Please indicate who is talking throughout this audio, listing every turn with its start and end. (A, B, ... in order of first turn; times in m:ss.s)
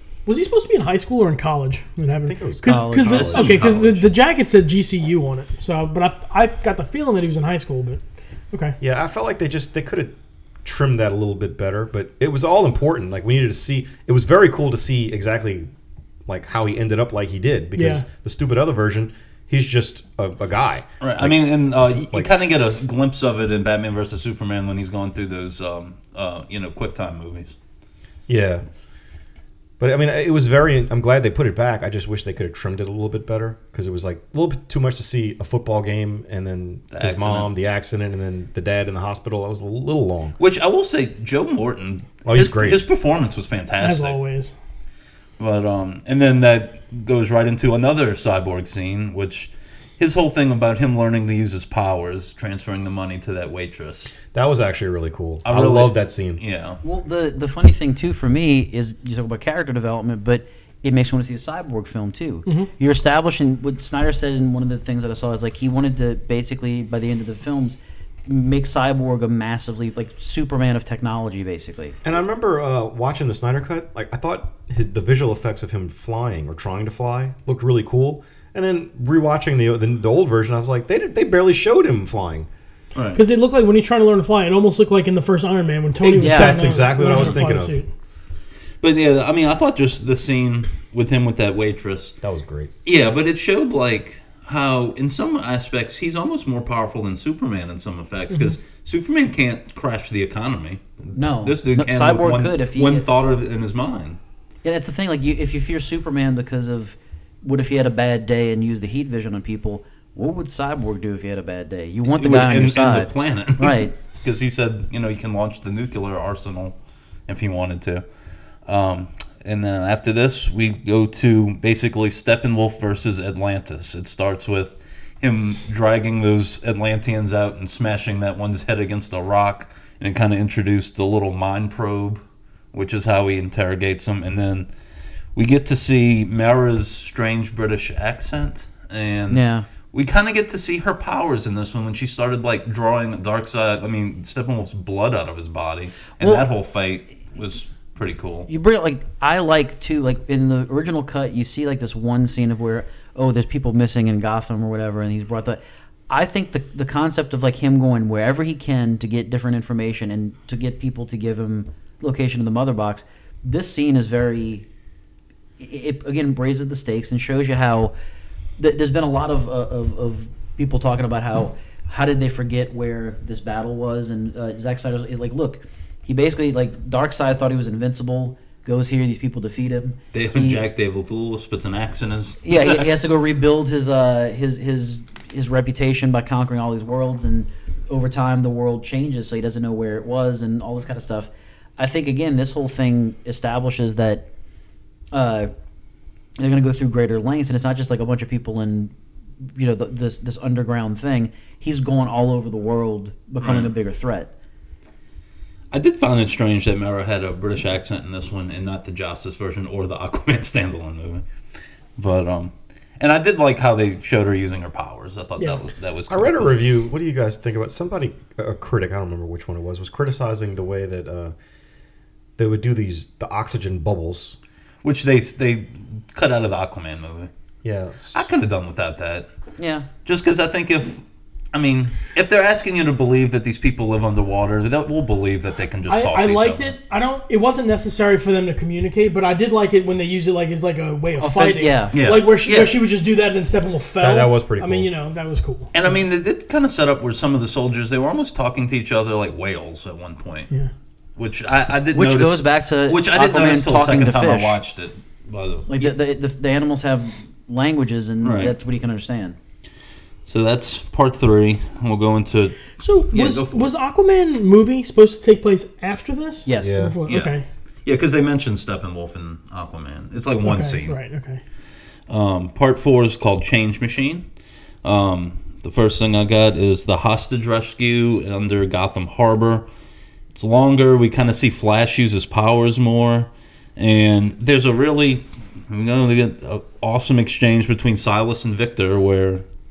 0:00.2-0:08.8 A
0:02.2-0:03.8 B
0:02.6-0:03.3 C
0:03.0-0:04.1 D
0:08.8-0:10.1 B
0:10.6-0:15.7 B
0:16.3-0:22.3 B
0:17.8-0:18.0 A
0:21.0-0:27.5 D
0:28.3-0:28.6 B
0:29.8-0:40.4 B
0:36.9-0:37.5 D
0:40.4-0:44.2 D
0:42.2-0:42.8 B
0:43.8-0:44.5 A
0:45.4-0:54.1 D
0:54.3-0:56.4 B
0:55.4-0:56.8 D
0:56.8-1:12.0 C
1:12.0-1:22.5 B
1:22.9-1:23.2 D
1:23.1-1:27.9 A
1:26.0-1:27.8 B
1:26.2-1:26.9 C
1:28.8-1:32.2 D
1:32.2-1:32.7 B
1:32.8-1:44.2 D
1:41.1-1:43.0 C
1:44.6-1:53.9 C
1:52.2-1:56.7 D
1:57.3-1:58.0 D
1:58.6-2:12.2 D
2:12.7-2:14.7 D
2:15.4-2:28.5 D
2:19.3-2:19.7 C
2:26.2-2:26.4 C
2:28.5-2:44.6 C
2:45.6-2:47.9 C
2:48.6-3:00.6 C
3:00.1-3:02.9 D
3:02.4-3:14.2 C
3:15.1-3:15.5 C
3:16.4-3:18.9 C
3:19.4-3:24.3 C
3:23.4-3:23.7 D
3:25.7-3:31.2 D
3:32.0-3:36.5 D
3:36.1-3:41.3 B
3:42.4-3:44.4 B
3:44.8-3:47.3 D
3:47.6-3:48.2 B
3:48.1-3:49.3 D
3:49.6-3:49.8 C
3:50.0-3:51.0 D
3:51.5-3:56.7 D
3:55.9-4:05.9 A
4:01.2-4:01.9 C
4:01.9-4:02.8 D
4:04.0-4:04.9 B
4:05.7-4:10.5 D
4:11.2-4:15.7 D
4:11.9-4:14.6 C
4:15.7-4:19.4 C
4:18.2-4:18.5 D
4:20.2-4:23.7 D
4:22.8-4:27.4 A
4:26.4-4:26.9 C
4:26.6-4:27.0 B
4:27.1-4:30.9 D
4:30.4-4:31.4 A
4:32.1-4:34.2 D
4:34.8-4:39.7 D
4:40.3-4:49.4 D